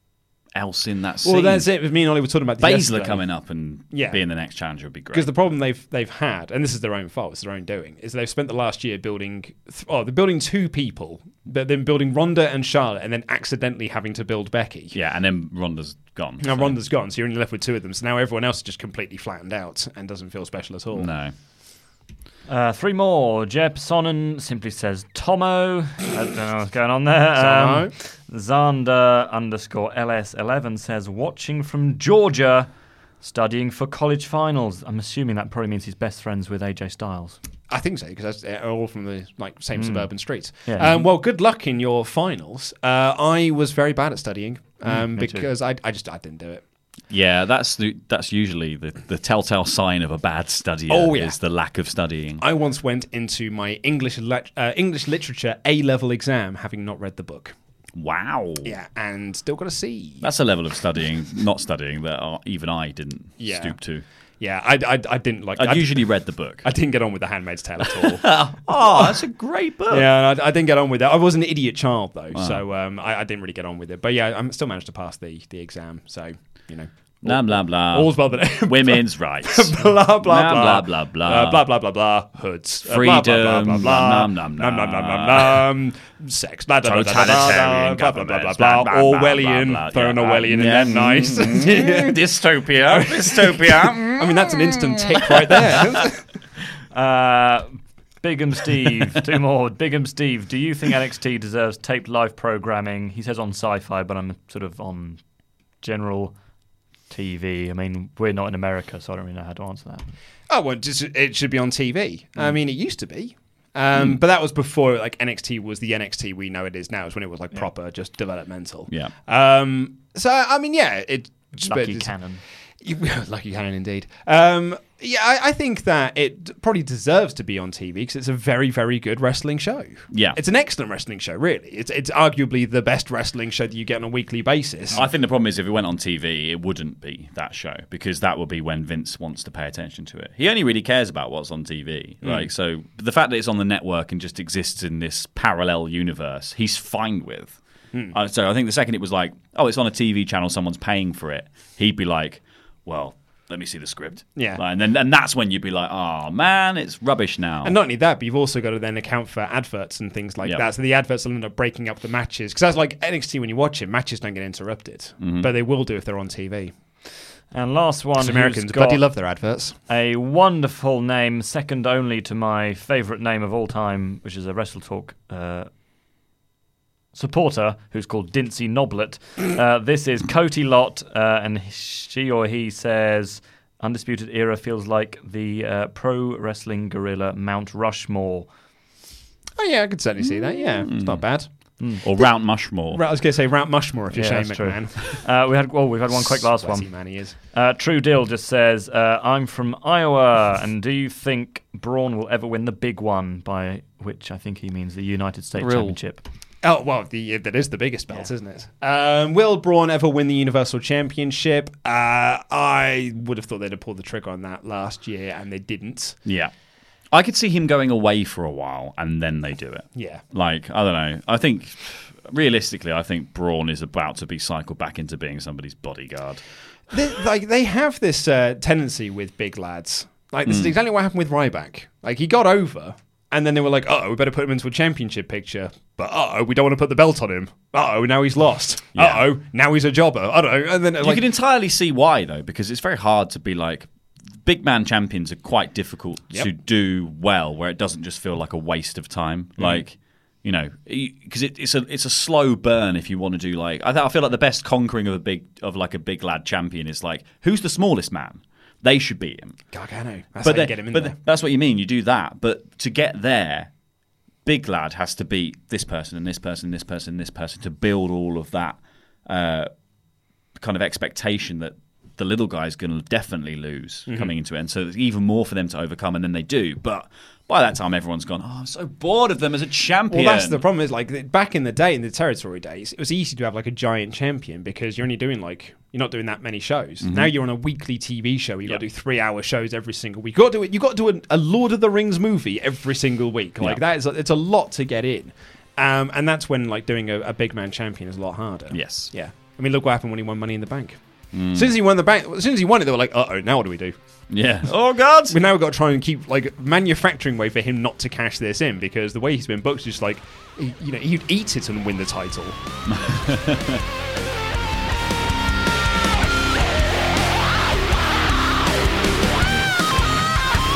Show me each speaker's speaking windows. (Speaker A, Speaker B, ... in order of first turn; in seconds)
Speaker A: 0.5-1.7, 2.6-5.3, 14.9-16.8, 20.9-21.3, 47.1-52.4, 57.9-58.7, 60.2-64.0, 65.5-66.7, 67.8-70.1, 72.3-72.6, 77.2-81.7, 82.9-85.7, 86.8-95.3, 130.1-130.4, 134.9-147.6, 148.1-157.8, 165.2-165.5, 190.2-191.2, 192.0-193.0, 205.6-206.0, 216.2-216.5, 217.1-226.4, 230.4-230.7, 238.9-239.2, 241.0-243.9, 244.4-259.6, 260.4-263.7, 264.4-269.7, 270.6-280.6, 287.0-287.3, 298.7-299.1, 301.3-301.7, 304.3-305.4, 312.9-313.8
Speaker B: 1.2-3.2, 3.9-4.2, 5.1-14.9, 16.4-21.1, 27.4-27.9, 37.7-46.6, 50.9-51.4, 52.4-57.5, 58.6-60.3, 63.4-63.8, 64.4-66.1, 66.6-69.2, 69.9-92.2, 92.9-96.2, 110.5-135.1, 154.3-154.6, 157.6-166.7, 168.2-169.8, 189.6-191.5, 192.9-195.2, 196.1-197.3, 206.6-216.2, 219.9-220.2, 226.9-241.2, 249.6-249.8, 259.7-261.1, 280.1-301.0, 301.5-303.9, 305.3-312.6
Speaker C: 22.5-32.7, 33.2-37.4, 39.8-40.1, 40.6-41.0, 44.9-45.5, 96.9-105.2, 105.8-106.3, 107.1-110.1, 121.6-122.4, 167.5-169.1, 169.9-175.7, 177.1-188.5, 191.8-192.0, 194.1-196.9, 197.5-206.2